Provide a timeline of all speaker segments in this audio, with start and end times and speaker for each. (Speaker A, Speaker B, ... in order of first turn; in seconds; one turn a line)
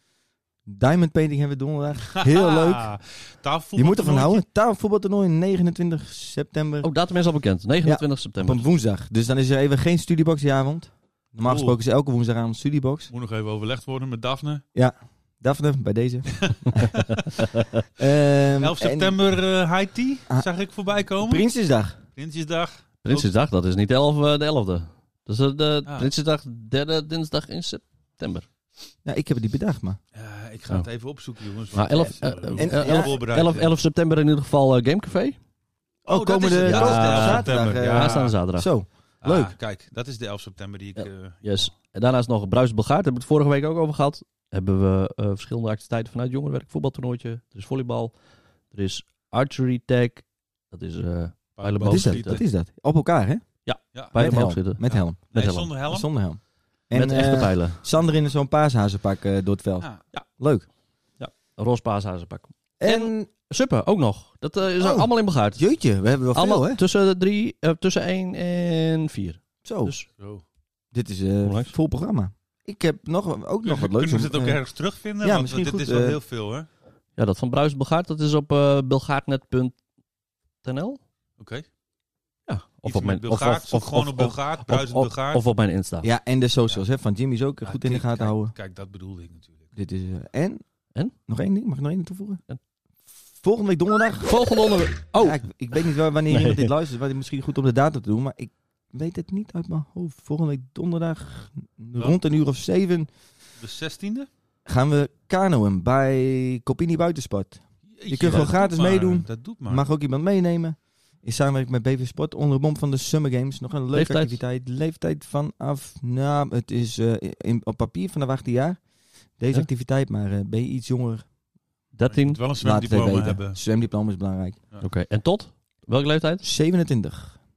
Speaker A: 0.7-2.9
Speaker B: 2.1-4.4
Speaker A: 3.8-6.9
Speaker C: 6.8-8.6
Speaker A: 7.8-13.1
Speaker B: 11.4-11.8
Speaker B: 13.1-14.6
Speaker A: 14.7-16.9
Speaker B: 16.5-17.2
Speaker A: 18.0-19.2
Speaker B: 18.6-23.3
Speaker A: 21.2-22.0
Speaker C: 23.0-28.5
Speaker A: 29.0-30.0
Speaker B: 30.1-33.7
Speaker C: 31.7-35.4
Speaker A: 32.6-33.1
Speaker A: 36.0-39.5
Speaker B: 36.1-38.4
Speaker C: 36.6-38.7
Speaker B: 39.2-41.7
Speaker C: 41.0-48.1
Speaker C: 48.7-52.4
Speaker B: 51.6-52.4
Speaker A: 51.8-53.5
Speaker C: 53.6-55.7
Speaker B: 53.9-56.1
Speaker A: 54.1-55.2
Speaker A: 55.8-60.7
Speaker C: 56.9-57.8
Speaker C: 61.2-70.1
Speaker A: 62.8-63.3
Speaker A: 64.8-66.8
Speaker A: 69.6-70.0
Speaker A: 70.9-74.6
Speaker C: 71.4-71.7
Speaker B: 73.6-76.7
Speaker A: 75.2-76.2
Speaker C: 77.2-79.8
Speaker C: 80.6-81.0
Speaker B: 81.4-81.7
Speaker C: 82.5-86.1
Speaker B: 82.8-85.4
Speaker A: 86.0-88.5
Speaker B: 87.6-89.7
Speaker A: 89.7-90.6
Speaker A: 91.2-92.4
Speaker A: 93.3-94.3
Speaker C: 94.2-96.7
Speaker A: 95.2-103.1
Speaker B: 103.6-104.3
Speaker A: 104.7-118.8
Speaker B: 107.9-109.8
Speaker C: 113.9-114.4
Speaker A: 119.3-121.3
Speaker C: 121.9-122.4
Speaker B: 122.0-123.6
Speaker A: 122.6-124.6
Speaker C: 124.8-126.4
Speaker A: 126.4-127.4